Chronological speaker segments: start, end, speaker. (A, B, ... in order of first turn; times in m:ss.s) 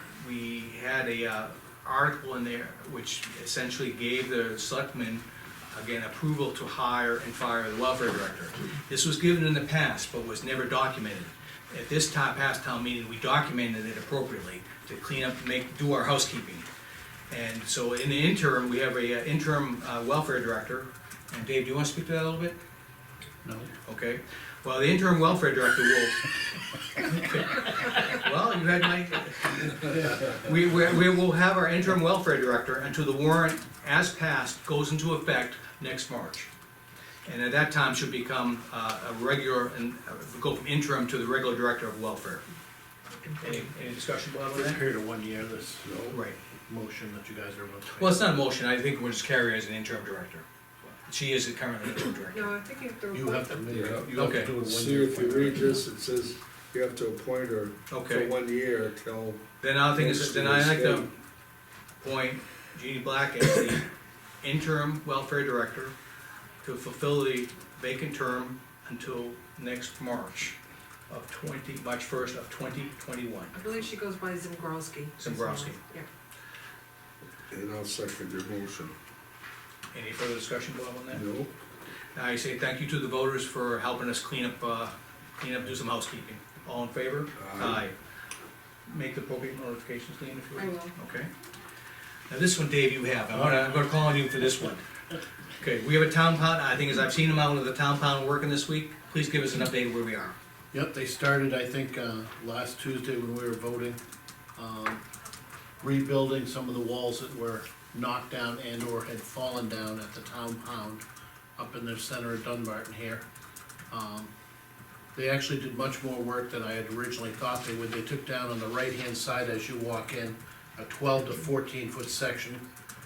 0:00.2-0:16.7 A
0:17.3-0:22.6 A
0:23.4-0:23.7 B
0:23.9-0:26.4 A
0:27.0-0:36.5 A
0:37.2-0:42.4 A
0:43.4-0:44.8 A
0:44.5-0:45.9 B
0:45.8-0:46.2 C
0:46.1-0:46.4 A
0:46.7-0:48.4 B
0:47.9-0:50.4 A
0:51.0-0:52.5 A
0:52.3-0:53.6 D
0:53.1-0:55.8 B
0:53.7-0:59.4 C
0:54.2-0:54.5 A
0:57.9-0:58.3 A
0:59.6-1:01.1 A
0:59.9-1:01.1 C
1:02.0-1:03.9 A
1:04.4-1:05.9 A
1:06.6-1:10.6 A
1:11.1-1:13.5 A
1:13.5-1:16.1 D
1:15.2-1:15.8 A
1:17.5-1:18.9 C
1:19.9-1:21.2 A
1:21.1-1:21.5 C
1:22.2-1:27.9 A
1:27.4-1:27.8 C
1:28.9-1:31.3 A
1:30.6-1:30.9 D
1:32.3-1:34.8 A
1:33.3-1:33.7 B
1:35.6-1:40.4 A
1:40.7-1:44.0 B
1:44.6-1:45.0 B
1:45.8-1:51.0 B
1:51.6-1:53.2 B
1:53.9-1:54.3 B
1:55.2-2:02.6 B